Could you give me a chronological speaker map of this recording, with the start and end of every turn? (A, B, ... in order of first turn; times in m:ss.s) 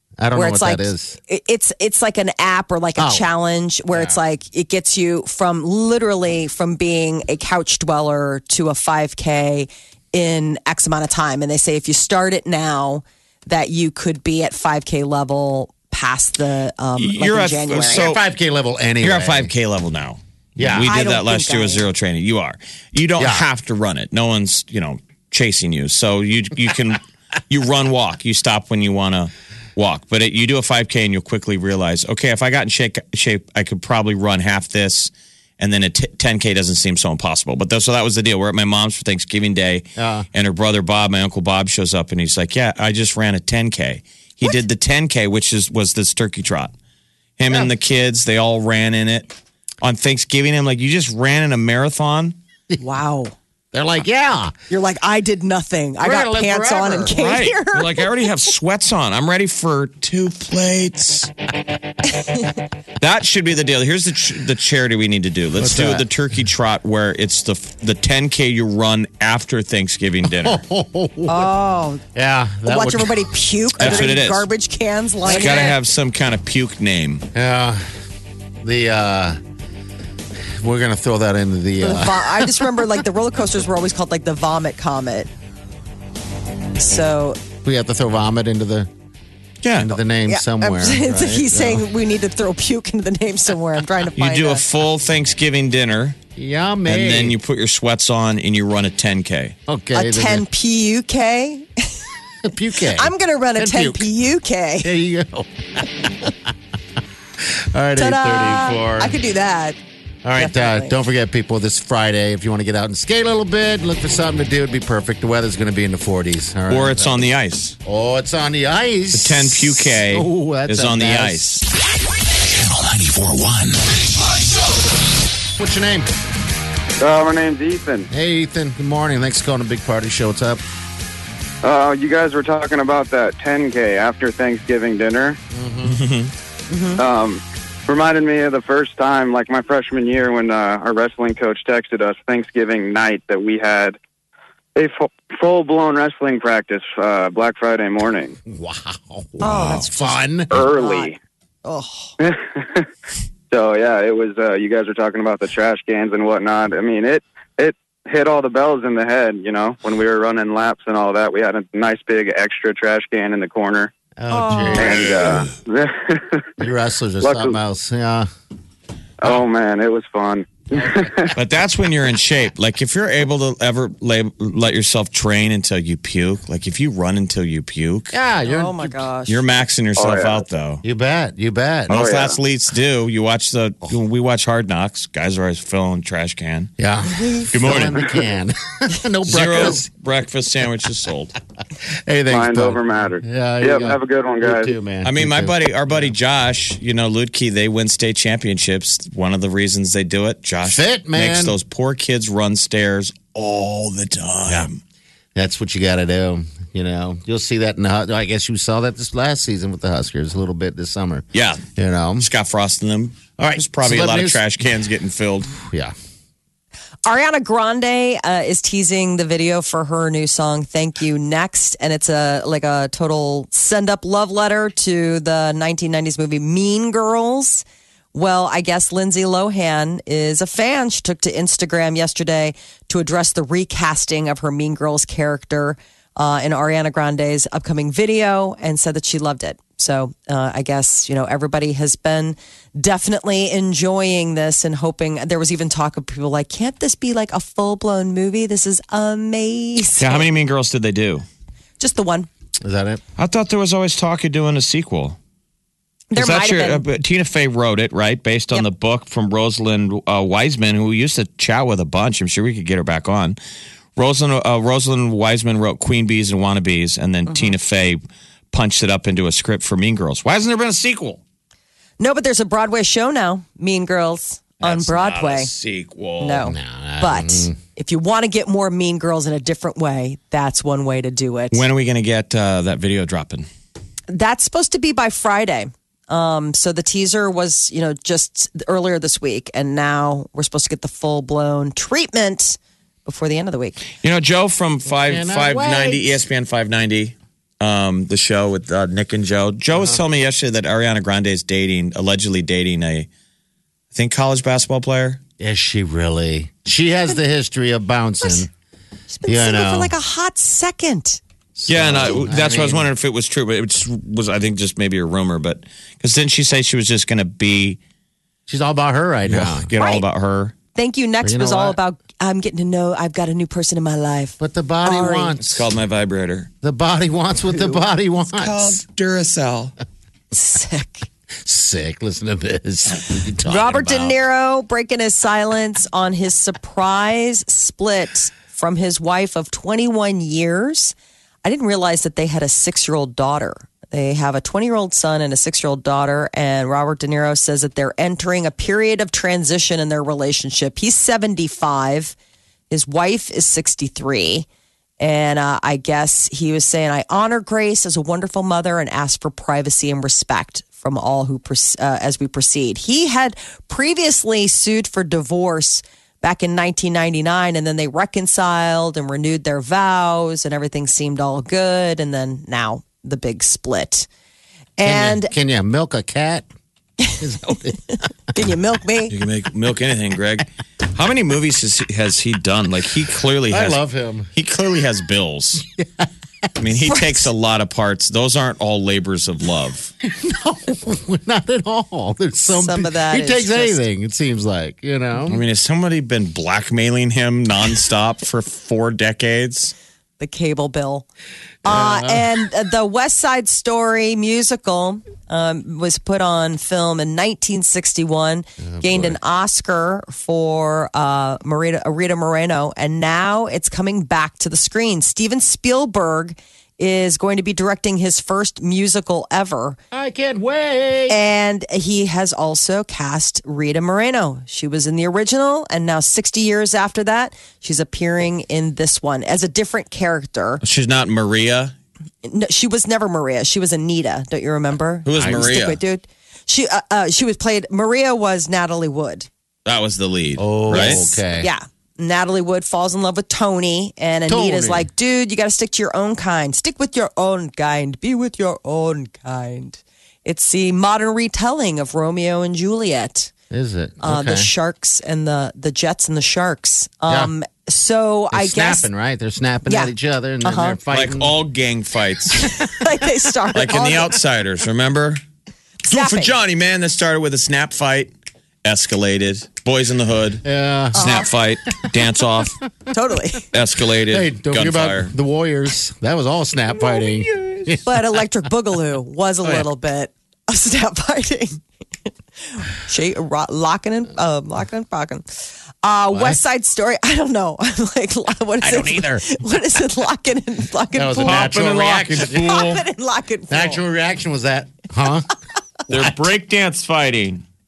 0:00.2-0:01.2 A
0:00.3-0:18.1 B
0:03.0-0:03.3 A
0:03.9-0:04.2 A
0:17.0-0:18.2 C
0:17.8-0:19.5 A
0:19.0-0:46.7 C
0:20.6-0:20.9 A
0:20.8-0:21.9 B
0:23.2-0:23.5 A
0:40.0-0:40.3 A
0:47.4-0:52.4 C
0:52.8-0:53.3 B
0:53.7-0:54.5 A
0:54.7-0:58.1 B
0:56.0-0:57.2 A
0:57.2-1:01.3 C
1:03.0-1:10.6 C
1:05.6-1:06.0 A
1:10.3-1:11.5 A
1:11.3-1:12.0 B
1:12.2-1:14.2 A
1:12.6-1:15.7 B
1:13.8-1:14.5 C
1:15.3-1:17.3 C
1:15.3-1:15.7 A
1:17.3-1:17.8 A
1:18.6-1:19.4 A
1:20.6-1:22.8 A
1:21.8-1:25.3 B
1:26.8-1:27.4 B
1:27.6-1:28.9 A
1:29.6-1:30.0 C
1:29.7-1:31.8 A
1:30.3-1:34.6 B
1:34.2-1:36.2 C
1:36.4-1:37.4 A
1:36.9-1:39.6 C
1:39.7-1:40.4 A
1:39.9-1:41.9 B
1:42.4-1:44.1 A
1:42.9-1:44.9 B
1:44.8-1:46.5 A
1:47.4-1:49.2 A
1:48.0-1:49.8 B
1:50.2-1:57.2 A
1:50.4-1:50.9 B
1:56.7-1:57.8 C
1:57.8-2:01.4 A
1:59.1-2:01.6 C
2:02.3-2:04.8 D
2:05.6-2:06.1 A
2:07.0-2:08.1 E
2:08.1-2:10.6 A
2:11.6-2:15.4 E
2:15.5-2:16.0 A
2:15.8-2:16.3 C
2:16.7-2:17.0 B
2:17.0-2:24.0 E
2:24.8-2:28.4 E
2:28.5-2:30.6 A
2:29.4-2:31.1 B
2:29.4-2:29.9 C
2:30.5-2:31.2 E
2:31.6-2:32.2 B
2:32.2-2:32.9 E
2:33.5-2:43.9 E
2:44.2-2:45.5 A
2:44.3-2:45.1 B
2:44.8-2:46.5 E
2:46.6-2:48.3 A
2:47.2-2:47.6 E
2:49.2-2:51.3 E
2:51.4-2:58.2 C
2:58.1-2:59.0 A
2:58.5-2:59.4 B
2:59.3-3:00.8 C
3:00.0-3:00.4 E
3:00.8-3:02.0 A
3:01.9-3:06.7 C
3:01.9-3:02.4 E
3:06.8-3:09.9 A
3:07.2-3:07.5 B
3:07.5-3:08.1 C
3:09.2-3:11.3 C
3:11.9-3:16.1 A
3:12.3-3:14.7 E
3:15.0-3:24.8 C
3:20.6-3:21.6 A
3:25.4-3:32.3 A
3:31.3-3:31.7 C
3:32.2-3:35.5 C
3:33.4-3:34.5 A
3:35.6-3:35.9 A
3:37.1-4:10.3 B
4:10.0-4:11.3 C
4:11.8-4:12.3 B
4:12.6-4:13.0 A
4:13.2-4:15.2 C
4:16.1-4:16.8 B
4:16.1-4:23.4 C
4:24.0-4:31.2 C
4:27.3-4:27.6 B
4:32.0-4:35.5 B
4:34.6-4:36.5 C
4:36.2-4:41.7 B
4:36.4-4:37.6 A
4:41.5-4:43.5 C
4:44.1-4:53.8 B
4:54.0-5:03.1 C
4:54.9-4:56.1 A
4:59.7-5:00.0 A
5:03.9-5:05.2 C
5:05.4-5:08.5 A
5:09.1-5:11.2 B
5:09.3-5:09.9 A
5:11.6-5:12.9 A
5:11.7-5:17.8 C
5:18.5-5:19.7 A
5:19.3-5:20.6 C
5:19.8-5:20.0 B
5:20.8-5:25.4 B
5:21.2-5:21.8 A
5:24.4-5:25.6 A
5:25.4-5:26.5 C
5:26.6-5:28.8 A
5:27.5-5:29.7 C
5:30.3-5:31.1 B
5:31.4-5:34.2 A
5:33.4-5:52.2 B
5:52.7-5:54.5 B
5:55.0-6:14.1 B
6:14.8-6:15.3 B
6:14.8-6:16.5 A
6:17.0-6:19.1 B
6:17.2-6:18.0 A
6:19.1-6:23.8 C
6:23.5-6:24.3 A
6:24.3-6:25.6 C
6:25.6-6:26.1 A
6:26.6-6:29.9 C
6:26.9-6:27.3 B
6:30.0-6:35.4 A
6:32.5-6:33.8 B
6:35.3-6:39.7 C
6:40.2-6:41.1 B
6:41.6-6:42.3 A
6:41.6-6:59.8 B
6:48.6-6:49.2 A
6:59.9-7:01.2 A
7:01.1-7:10.6 B
7:10.6-7:11.8 C
7:12.2-7:19.3 B
7:15.0-7:15.8 C
7:15.2-7:15.5 A
7:19.7-7:21.0 C
7:20.4-7:21.5 A
7:20.7-7:33.3 B
7:24.3-7:24.9 A
7:33.5-7:34.5 A
7:34.0-7:38.9 B
7:38.3-7:41.3 A
7:39.7-7:39.9 B
7:40.4-7:40.8 B
7:40.9-7:42.5 C
7:42.3-7:44.2 B
7:43.5-7:45.2 C
7:45.8-7:46.4 B
7:45.9-7:48.1 C
7:48.6-7:52.6 C
7:50.4-7:51.2 A
7:51.0-7:51.3 B
7:51.8-7:52.1 A
7:52.9-7:53.5 B
7:53.5-7:55.1 C
7:54.0-7:58.2 A
7:57.8-8:01.6 B
8:02.5-8:05.2 B
8:05.8-8:11.6 B
8:06.1-8:06.4 A
8:08.6-8:09.4 A
8:10.9-8:12.6 A
8:11.2-8:12.8 C
8:12.2-8:13.8 B
8:13.5-8:15.3 A
8:15.9-8:17.4 C
8:15.9-8:16.2 A